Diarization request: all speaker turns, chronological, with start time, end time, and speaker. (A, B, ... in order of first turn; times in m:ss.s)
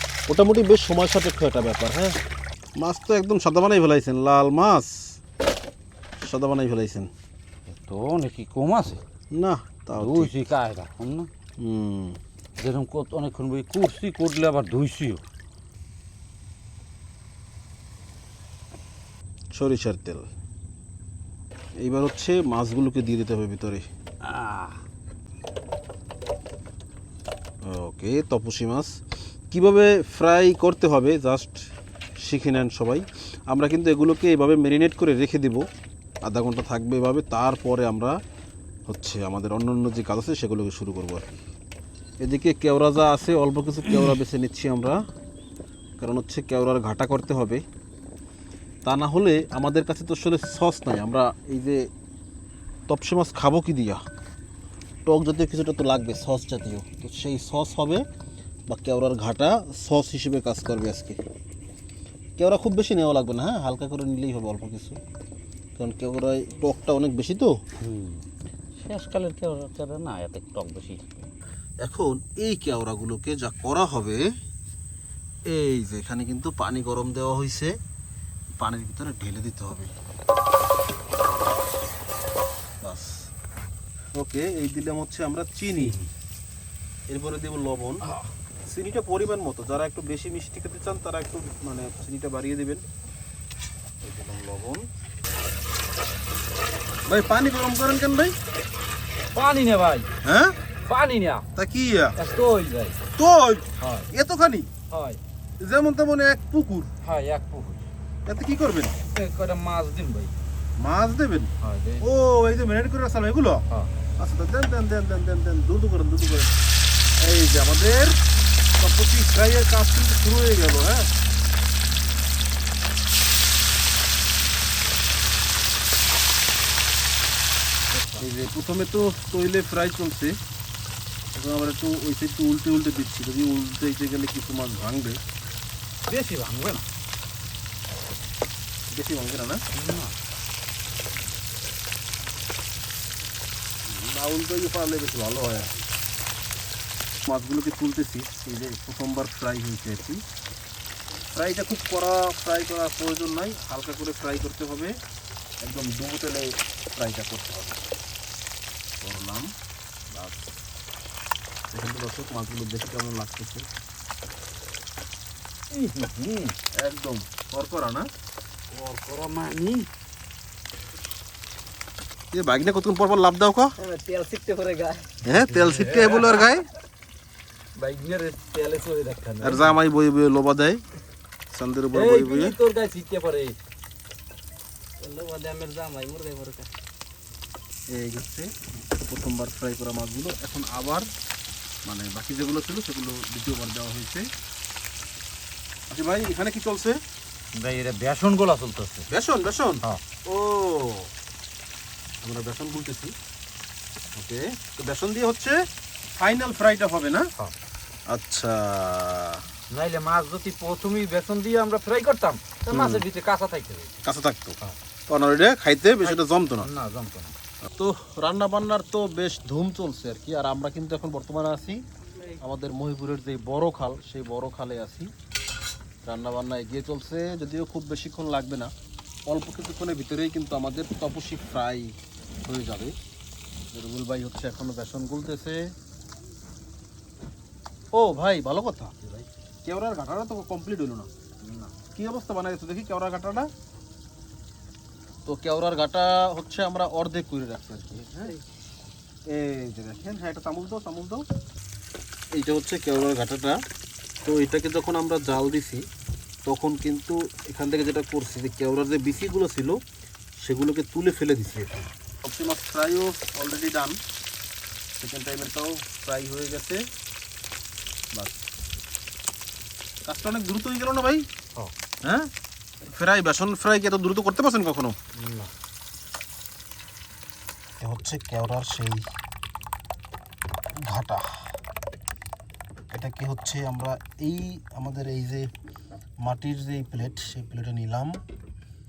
0:00.3-0:02.2 A
0:02.8-0:05.2 A
0:06.2-0:07.1 A
0:07.7-0:09.0 B
0:09.3-0:10.3 A
0:10.0-0:11.3 B
0:11.6-0:12.2 A
0:12.6-0:15.2 B
0:19.5-0:20.3 A
0:21.8-0:23.9 A
0:24.2-0:24.8 B
0:27.6-0:28.9 A
0:29.5-0:31.7 A
0:32.2-0:35.6 A
0:36.2-0:38.2 A
0:38.9-0:41.4 A
0:42.2-0:45.0 A
0:46.0-0:47.6 A
0:48.8-0:51.9 A
0:52.9-0:54.0 A
0:55.1-0:58.0 A
0:58.7-1:01.2 A
1:02.4-1:05.0 A
1:05.8-1:07.6 A
1:07.8-1:08.3 B
1:08.8-1:11.3 B
1:11.8-1:14.2 A
1:15.5-1:17.7 A
1:18.6-1:19.9 A
1:22.8-1:23.2 A
1:24.2-1:26.0 A
1:27.1-1:28.1 A
1:28.7-1:32.8 A
1:34.0-1:34.8 A
1:37.1-1:38.3 A
1:39.3-1:40.1 B
1:40.2-1:40.6 A
1:40.9-1:41.4 B
1:41.6-1:42.2 A
1:42.2-1:43.0 B
1:43.2-1:44.7 A
1:43.8-1:44.1 B
1:44.9-1:45.2 B
1:45.6-1:46.9 A
1:47.0-1:47.9 B
1:48.3-1:49.0 A
1:49.0-1:50.4 B
1:50.8-1:53.6 A
1:51.6-1:52.1 B
1:54.2-1:56.5 A
1:57.2-1:58.2 A
1:58.8-2:01.1 A
2:07.9-2:08.2 B
2:08.2-2:10.4 A
2:11.3-2:15.2 A
2:16.1-2:16.9 B
2:18.9-2:19.6 A
2:19.7-2:20.2 B
2:23.9-2:25.8 A
2:27.3-2:30.2 A
2:31.3-2:35.0 A
2:35.6-2:37.9 A
2:39.0-2:39.5 A
2:40.1-2:40.5 A
2:41.7-2:43.6 A
2:45.7-2:46.6 B
2:46.8-2:48.1 A
2:48.7-2:49.9 B
2:52.3-2:53.7 A
2:53.8-2:55.1 C
2:55.2-2:56.7 A
2:55.4-2:56.4 B
2:57.8-2:59.8 B
2:59.4-3:00.8 A
3:01.5-3:02.6 A
3:01.9-3:03.6 B
3:05.0-3:06.7 C
3:07.9-3:08.5 A
3:09.1-3:11.1 A
3:11.9-3:14.2 A
3:15.9-3:17.0 A
3:17.6-3:19.1 B
3:19.1-3:21.1 A
3:22.2-3:23.1 A
3:24.2-3:25.6 A
3:26.2-3:27.3 A
3:28.1-3:29.4 A
3:29.7-3:34.0 B
3:32.7-3:33.0 A
3:34.0-3:34.6 A
3:35.1-3:36.7 A
3:36.0-3:37.4 B
3:37.7-3:41.8 A
3:42.4-3:45.1 A
3:46.1-3:48.7 A
3:49.3-3:51.9 A
3:52.4-3:52.9 A
3:53.7-3:55.6 A
3:57.9-4:01.1 A
4:01.8-4:03.5 A
4:05.3-4:08.4 A
4:09.3-4:11.2 A
4:12.4-4:13.6 A
4:14.2-4:15.8 A
4:16.5-4:19.8 A
4:20.4-4:24.0 A
4:25.0-4:26.8 A
4:28.1-4:28.4 A
4:30.0-4:31.2 A
4:32.0-4:32.3 A
4:32.9-4:35.0 A
4:35.2-4:35.5 B
4:37.8-4:39.0 A
4:40.8-4:41.3 A
4:42.9-4:45.5 A
4:46.2-4:48.2 A